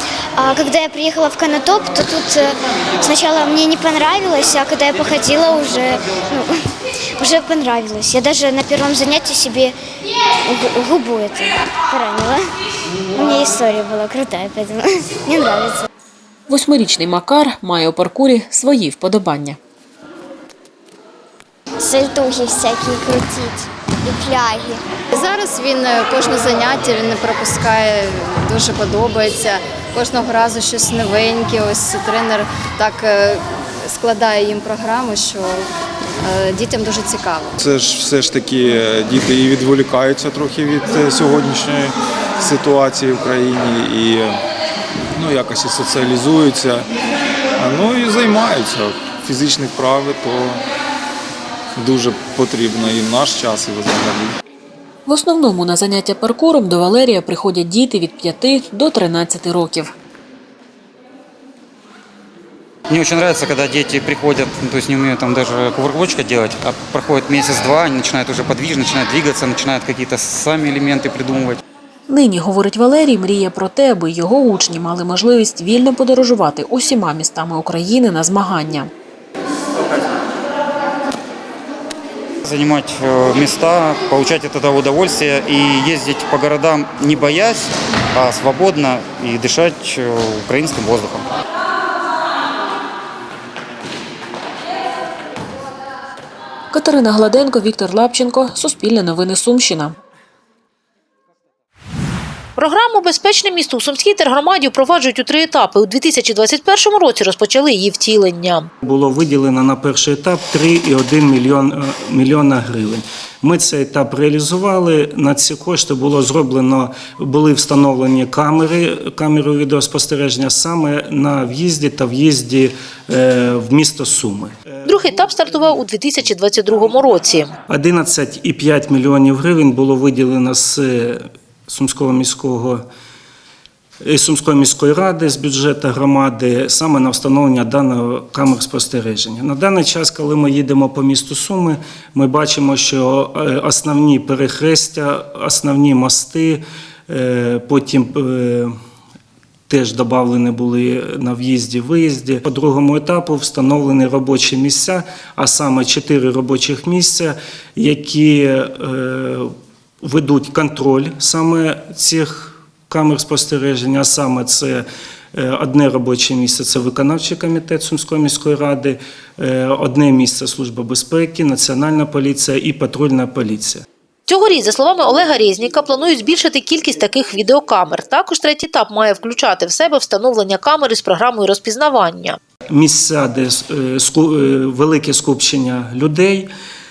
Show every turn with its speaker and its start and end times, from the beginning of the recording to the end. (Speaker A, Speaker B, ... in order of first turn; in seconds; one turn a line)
Speaker A: 0.3-6.5
Speaker A: 7.2-9.8
Speaker A: 10.4-12.6
Speaker A: 13.1-15.8
Speaker B: 16.5-19.6
Speaker A: 21.8-24.8
Speaker C: 25.1-35.5
Speaker C: 36.2-37.5
Speaker D: 37.6-44.4
Speaker D: 45.1-46.9
Speaker D: 47.6-50.6
Speaker D: 51.8-54.4
Speaker B: 55.0-59.9
Speaker E: 62.9-71.6
Speaker B: 72.1-78.9
Speaker E: 82.4-91.3
Speaker B: 96.7-100.0
Speaker F: 102.5-108.7
Speaker G: 108.8-125.8
Speaker F: 124.9-127.5
Speaker G: 127.7-132.8
Speaker G: 134.0-148.7
Speaker G: 149.7-159.5
Speaker G: 160.0-173.8
Speaker F: 174.3-182.4
Speaker G: 182.7-186.5